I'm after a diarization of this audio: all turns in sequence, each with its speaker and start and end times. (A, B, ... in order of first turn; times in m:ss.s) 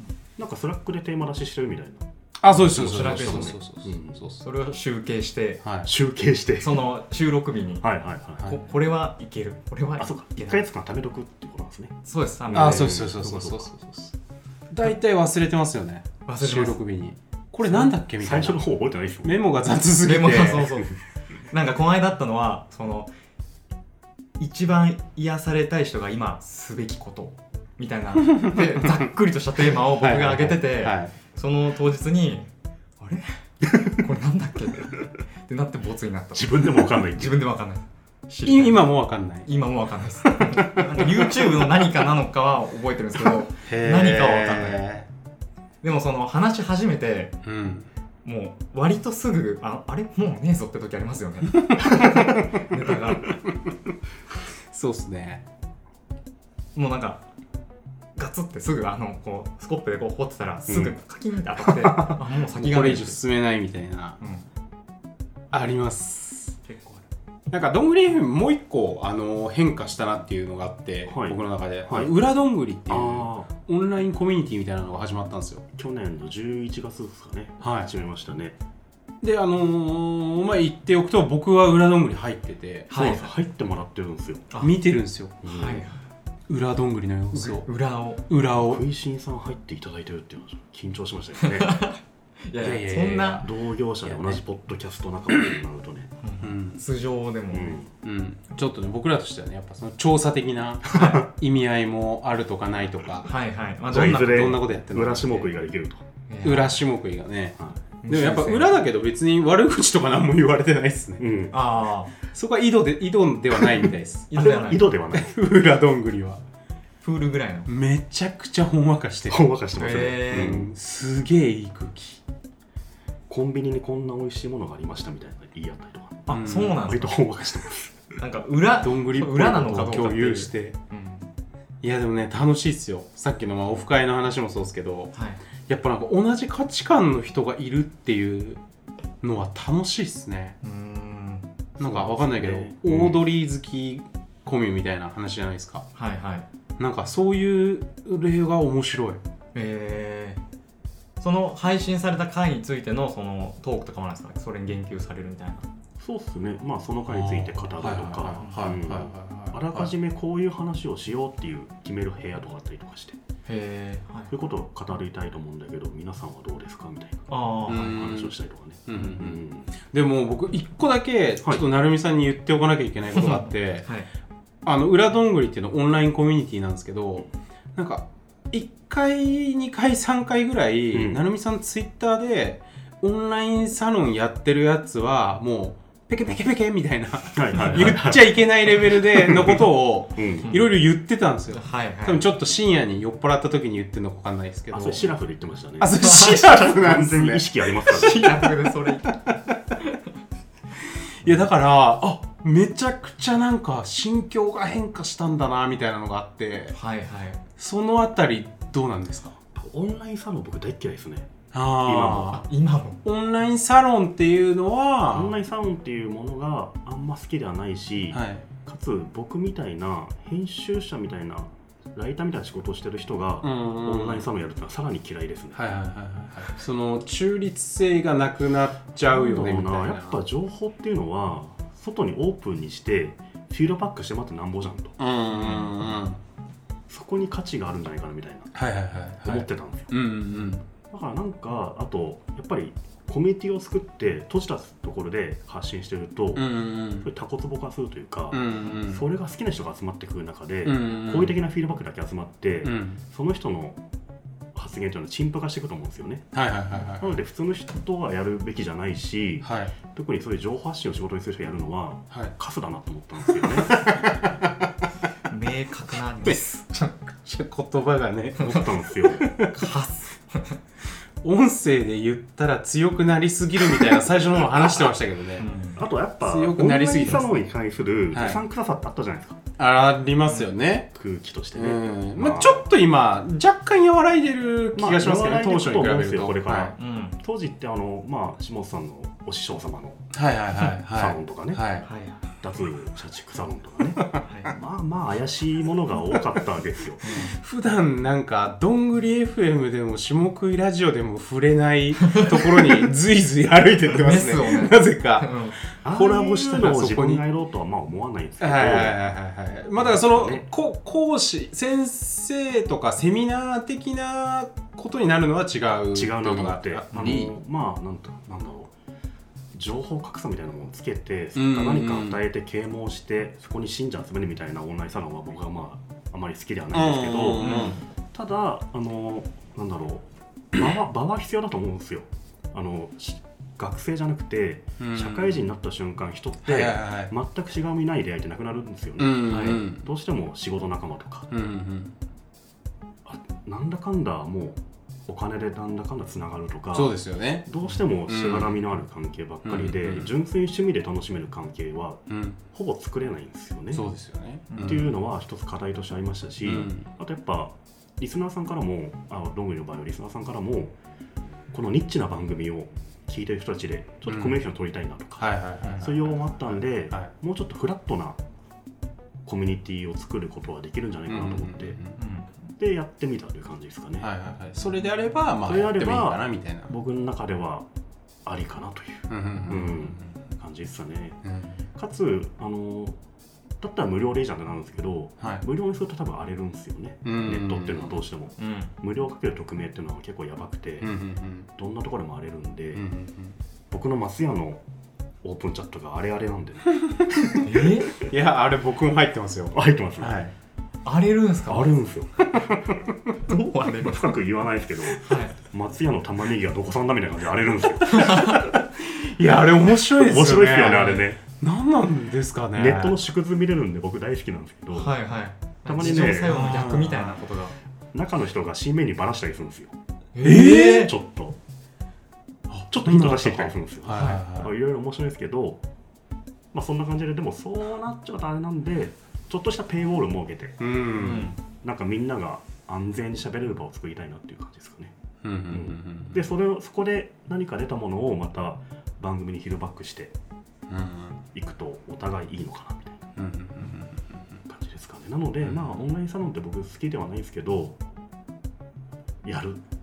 0:00.4-0:04.2 A
0:02.4-0:04.4 B
0:02.6-0:03.6 C
0:04.4-0:05.6 C
0:05.6-0:05.9 B
0:05.8-0:06.8 A
0:06.6-0:07.9 C
0:07.8-0:08.6 A
0:08.4-0:10.6 C
0:10.0-0:13.7 A
0:12.1-0:13.0 C
0:12.5-0:14.1 B
0:14.7-0:18.6 B
0:16.3-0:16.8 C
0:18.2-0:19.4 A
0:19.2-0:20.8 B
0:20.0-0:23.1 C
0:24.4-0:32.5 C
0:28.4-0:29.0 B
0:29.7-0:31.1 B
0:33.0-0:38.9 C
0:36.4-0:37.4 A
0:38.4-0:39.5 B
0:39.4-0:44.8 C
0:40.4-0:41.6 B
0:43.6-0:45.1 B
0:45.8-0:47.4 C
0:47.4-0:47.9 B
0:48.2-0:53.3 C
0:51.7-0:52.5 B
0:54.7-0:55.4 B
0:56.8-0:57.2 C
0:58.2-1:03.2 C
1:02.0-1:04.2 B
1:04.2-1:04.5 C
1:05.5-1:06.6 B
1:06.6-1:07.0 C
1:07.5-1:15.6 B
1:11.1-1:12.1 A
1:12.9-1:13.5 A
1:15.8-1:18.6 A
1:17.6-1:17.9 B
1:19.2-1:22.9 B
1:22.9-1:23.3 C
1:22.9-1:24.5 A
1:24.6-1:25.4 B
1:25.4-1:25.9 A
1:25.4-1:26.0 C
1:26.5-1:27.7 B
1:27.3-1:28.2 C
1:28.3-1:28.8 B
1:28.5-1:31.8 A
1:31.4-1:33.4 C
1:32.6-1:33.5 B
1:33.4-1:36.1 A
1:36.2-1:37.8 C
1:36.4-1:36.8 B
1:37.5-1:37.9 A
1:38.0-1:43.3 B
1:40.9-1:41.3 A
1:40.9-1:41.2 C
1:43.3-1:44.6 C
1:43.9-1:46.0 A
1:43.9-1:45.5 B
1:46.3-1:46.8 C
1:46.4-1:47.6 B
1:48.0-1:48.8 C
1:48.1-1:51.2 B
1:51.2-1:51.6 A
1:51.5-1:52.1 C
1:52.3-1:54.3 B
1:54.3-1:54.9 C
1:54.3-1:55.3 A
1:55.1-1:56.4 B
1:57.0-1:57.7 C
1:57.7-1:59.4 B
1:59.3-2:00.7 A
1:59.8-2:00.6 C
2:00.3-2:02.2 B
2:03.3-2:08.1 A
2:06.3-2:07.1 C
2:06.3-2:06.8 B
2:08.2-2:11.3 C
2:08.8-2:10.8 B
2:11.8-2:15.1 B
2:15.1-2:15.4 C
2:15.7-2:18.6 B
2:19.2-2:20.6 B
2:20.6-2:21.5 C
2:21.8-2:23.2 A
2:21.8-2:25.9 B
2:26.0-2:26.5 C
2:26.8-2:29.2 B
2:29.6-2:30.4 C
2:31.2-2:35.7 C
2:36.0-2:43.2 A
2:37.1-2:39.9 B
2:38.4-2:38.7 C
2:43.5-2:44.3 C
2:44.3-2:49.7 A
2:47.3-2:48.1 C
2:47.7-2:48.3 B
2:48.9-2:53.9 B
2:53.2-2:54.1 C
2:54.6-3:15.1 B
3:00.9-3:01.2 A
3:07.3-3:10.5 A
3:10.4-3:10.7 C
3:11.5-3:12.2 C
3:14.7-3:16.0 A
3:15.8-3:17.5 B
3:16.0-3:16.8 C
3:16.5-3:18.4 A
3:17.8-3:20.1 C
3:20.8-3:26.8 B
3:26.7-3:27.4 C
3:27.6-3:29.4 B
3:29.6-3:32.4 A
3:31.5-3:32.4 B
3:32.3-3:33.0 C
3:33.0-3:35.4 B
3:35.1-3:45.7 A
3:38.1-3:38.5 B
3:43.4-3:44.3 B
3:45.5-3:50.2 B
3:49.1-3:55.0 A
3:55.0-3:56.2 B
3:55.3-3:55.7 C
3:56.9-3:58.6 A
3:58.6-4:00.6 B
3:59.2-4:00.0 A
4:00.9-4:13.8 A
4:06.4-4:07.1 B
4:08.3-4:09.0 B
4:10.6-4:11.4 B
4:12.6-4:13.0 B
4:14.6-4:16.3 A
4:16.3-4:17.2 B
4:17.0-4:24.0 A
4:19.4-4:19.7 B
4:23.3-4:24.7 B
4:25.3-4:26.9 C
4:27.1-4:29.5 B
4:28.4-4:29.3 A
4:29.3-4:30.6 C
4:31.2-4:35.5 B
4:35.4-4:35.8 C
4:35.8-4:39.4 A
4:36.2-4:37.4 B
4:38.1-4:38.4 B
4:39.6-4:40.9 B
4:41.0-4:42.7 A
4:41.5-4:46.8 B
4:44.8-4:50.1 A
4:46.8-4:47.2 C
4:50.1-4:51.9 B
4:50.9-4:51.7 A
4:51.8-4:52.2 C
4:52.4-4:57.2 A
4:54.2-4:54.5 C
4:57.0-4:57.4 C
4:57.2-5:07.2 B
5:02.0-5:02.7 C
5:04.0-5:05.6 C
5:05.8-5:09.0 A
5:08.4-5:17.3 B
5:09.8-5:10.5 A
5:15.9-5:18.7 A
5:19.5-5:41.3 A
5:21.4-5:22.2 B
5:26.7-5:27.8 B
5:27.4-5:27.8 C
5:34.8-5:35.4 B
5:36.4-5:37.1 B
5:39.0-5:39.9 B
5:39.3-5:39.6 C
5:41.3-5:42.0 B
5:43.0-5:53.9 A
5:46.7-5:47.5 B
5:48.1-5:48.6 B
5:49.4-5:50.1 B
5:52.1-5:52.4 B
5:53.7-5:54.9 B
5:54.5-5:54.8 C
5:54.6-6:00.7 A
5:56.4-5:56.9 B
6:01.5-6:08.2 A
6:04.1-6:04.4 B
6:05.2-6:07.1 B
6:05.6-6:05.9 C
6:09.2-6:11.8 A
6:11.1-6:12.0 B
6:12.0-6:12.4 C
6:12.6-6:14.1 A
6:14.0-6:16.7 B
6:15.4-6:17.7 A
6:18.3-6:21.2 A
6:19.1-6:20.1 B
6:21.2-6:21.6 B
6:21.8-6:23.0 A
6:23.6-6:30.9 A
6:27.0-6:28.0 B
6:28.4-6:28.7 C
6:30.8-6:31.5 B
6:31.6-6:32.8 A
6:32.8-6:33.4 B
6:33.7-6:34.6 A
6:35.2-6:37.4 A
6:37.4-6:37.9 C
6:37.9-6:40.4 B
6:39.5-6:40.2 A
6:40.8-6:41.7 C
6:41.5-6:42.6 A
6:43.3-6:44.2 C
6:43.8-6:48.4 A
6:45.0-6:45.4 C
6:47.9-6:48.4 C
6:48.5-6:53.0 B
6:49.8-6:51.2 A
6:52.6-6:55.0 A
6:54.7-6:57.6 C
6:55.7-6:56.4 A
6:55.8-6:57.2 B
6:57.9-6:59.8 A
7:00.2-7:00.9 C
7:00.2-7:00.9 B
7:00.4-7:01.4 A
7:02.5-7:04.5 B
7:02.7-7:05.6 A
7:04.0-7:04.2 C
7:06.5-7:10.7 A
7:10.6-7:11.3 B
7:11.0-7:11.4 C
7:11.5-7:14.9 A
7:15.2-7:16.2 B
7:15.5-7:20.1 A
7:20.7-7:21.2 B
7:21.3-7:23.0 A
7:23.2-7:24.4 B
7:24.5-7:27.8 A
7:25.4-7:25.8 B
7:29.2-7:29.6 A